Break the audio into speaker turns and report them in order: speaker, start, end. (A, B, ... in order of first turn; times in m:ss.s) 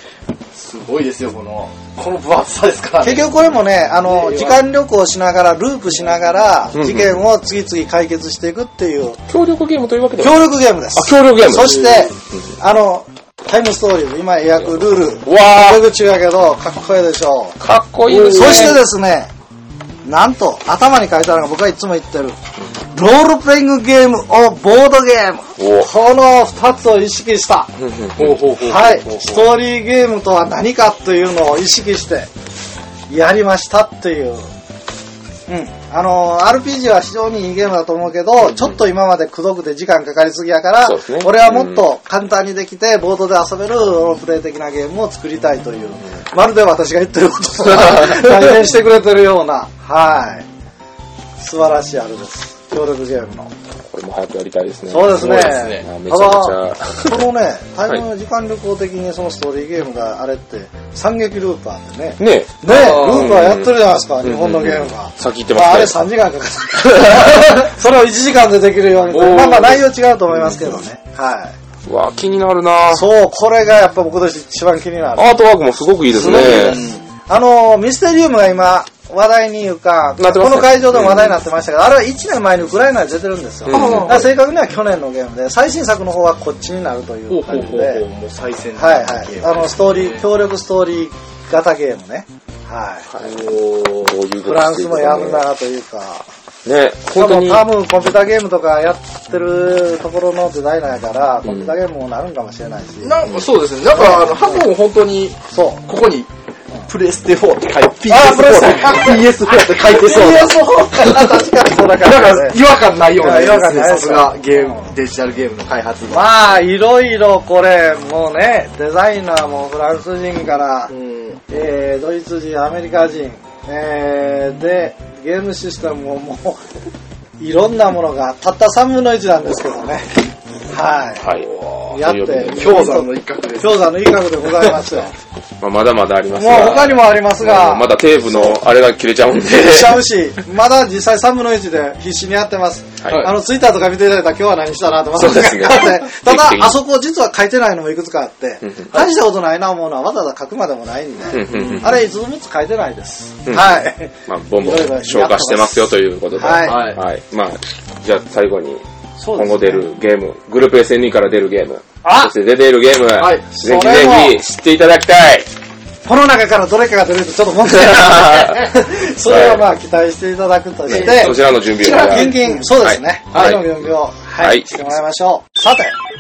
0:00.5-0:03.4 A
0:03.0-0:09.2 B
0:04.0-0:04.6 A
0:06.7-0:07.2 C
0:09.3-0:12.4 C
0:10.2-0:17.6 B
0:11.6-0:12.0 A
0:15.2-0:15.8 C
0:17.6-0:18.8 C
0:18.1-0:18.8 A
0:18.3-0:19.3 B
0:20.0-0:22.4 B
0:22.9-0:27.7 B
0:25.6-0:25.9 C
0:27.8-0:28.6 C
0:28.2-0:29.5 A
0:28.6-0:32.3 B
0:33.1-0:34.5 B
0:35.5-0:50.4 B
0:40.8-0:41.8 C
0:47.9-0:48.4 C
0:51.4-0:53.5 B
0:53.9-0:57.2 C
0:54.9-1:11.5 B
0:55.2-0:55.8 A
1:02.2-1:06.0 C
1:02.6-1:03.5 A
1:09.1-1:09.8 A
1:10.3-1:10.8 C
1:11.8-1:13.1 C
1:12.9-1:15.4 B
1:15.2-1:16.8 C
1:16.1-1:17.0 A
1:16.1-1:28.0 B
1:20.2-1:21.4 C
1:23.6-1:24.3 C
1:23.7-1:24.3 A
1:27.3-1:30.3 A
1:28.8-1:33.1 B
1:33.2-1:34.2 A
1:34.1-1:35.4 C
1:34.4-1:36.3 B
1:36.6-1:37.6 C
1:37.1-1:43.3 B
1:41.4-1:41.7 C
1:43.0-1:46.3 A
1:43.9-1:44.7 B
1:45.5-1:45.8 B
1:46.9-1:51.4 A
1:48.1-1:52.6 B
1:52.0-1:56.3 A
1:53.2-1:54.9 B
1:56.1-2:00.9 B
2:00.9-2:01.4 A
2:01.5-2:06.6 B
2:07.4-2:10.1 B
2:10.7-2:11.3 B
2:11.2-2:13.0 C
2:11.3-2:11.9 A
2:11.9-2:15.1 B
2:12.4-2:14.8 A
2:15.6-2:20.0 C
2:16.3-2:18.6 B
2:19.4-2:36.9 B
2:23.0-2:23.3 C
2:23.1-2:23.3 A
2:25.1-2:26.8 C
2:28.6-2:28.9 C
2:31.3-2:32.0 C
2:31.4-2:32.0 A
2:33.4-2:38.8 C
2:36.6-2:37.0 A
2:39.2-2:39.9 B
2:39.3-2:45.5 C
2:42.0-2:42.3 B
2:43.2-2:43.5 A
2:43.5-2:44.4 B
2:46.0-2:55.9 B
2:47.7-2:48.6 C
2:49.2-2:49.6 C
2:50.9-2:52.7 A
2:50.9-2:54.8 C
2:53.3-2:53.6 A